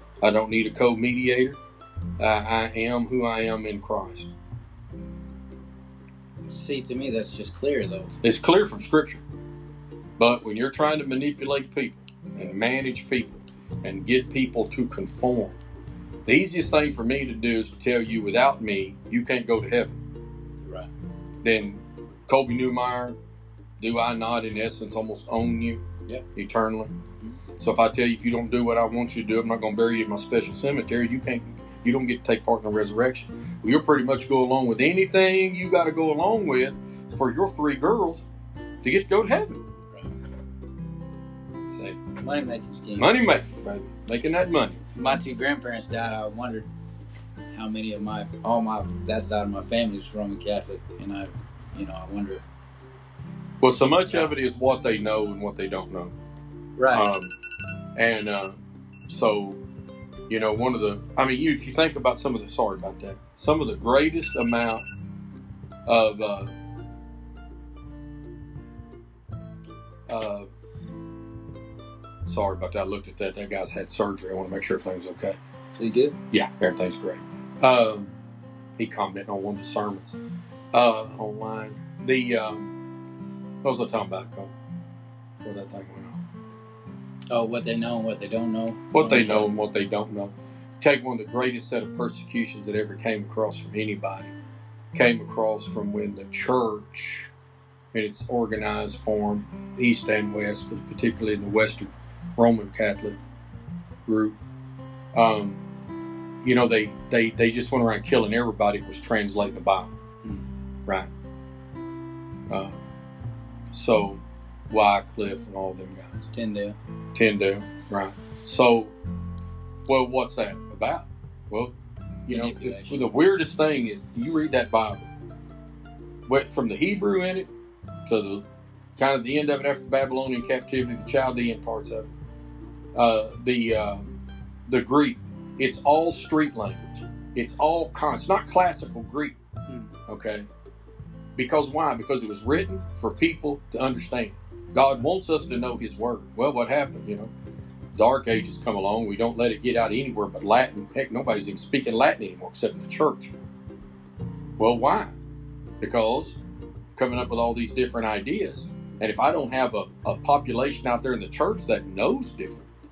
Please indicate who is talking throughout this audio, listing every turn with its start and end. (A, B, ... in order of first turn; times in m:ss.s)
0:00.2-0:01.6 A
0:02.2-0:04.3 A
0:06.5-0:08.1 B
0:08.2-0:09.2 A
0:10.2-0:15.6 A
0:16.3-0:20.0 A
0:20.6-0:20.9 B
0:21.4-0:23.2 A
0:23.8-0:25.8 A
0:26.3-0:26.9 A
0:27.6-0:38.3 A
0:38.8-0:39.6 A
0:41.7-0:42.0 A
0:42.2-0:43.1 B
0:43.0-0:44.8 A
0:45.0-0:46.6 B
0:47.5-0:52.4 B
0:53.6-0:56.1 A
0:56.8-0:57.0 B
0:56.9-0:57.3 A
0:58.0-0:59.6 A
1:00.3-1:04.8 A
1:05.9-1:06.5 A
1:10.1-1:10.5 A
1:12.2-1:15.4 A
1:15.8-1:16.2 B
1:16.3-1:18.1 A
1:18.8-1:20.2 A
1:20.7-1:22.7 A
1:23.6-1:24.5 A
1:25.4-1:26.2 A
1:27.3-1:29.5 B
1:28.9-1:34.3 A
1:34.9-1:37.3 A
1:37.9-1:43.2 A
1:44.0-1:44.4 A
1:45.1-1:45.6 A
1:46.4-1:49.9 A
1:52.5-1:52.8 A
1:53.7-1:56.3 A
1:56.3-1:56.8 B
1:57.1-1:59.0 A
1:59.9-2:01.7 A
2:02.3-2:05.0 A
2:02.3-2:03.0 B
2:06.3-2:07.5 A
2:08.0-2:08.4 A
2:09.0-2:12.1 A
2:13.0-2:14.1 A
2:14.7-2:19.4 A
2:20.1-2:20.4 A
2:21.4-2:27.3 A
2:27.9-2:33.3 A
2:34.6-2:35.1 A
2:35.8-2:36.4 A
2:37.0-2:42.7 A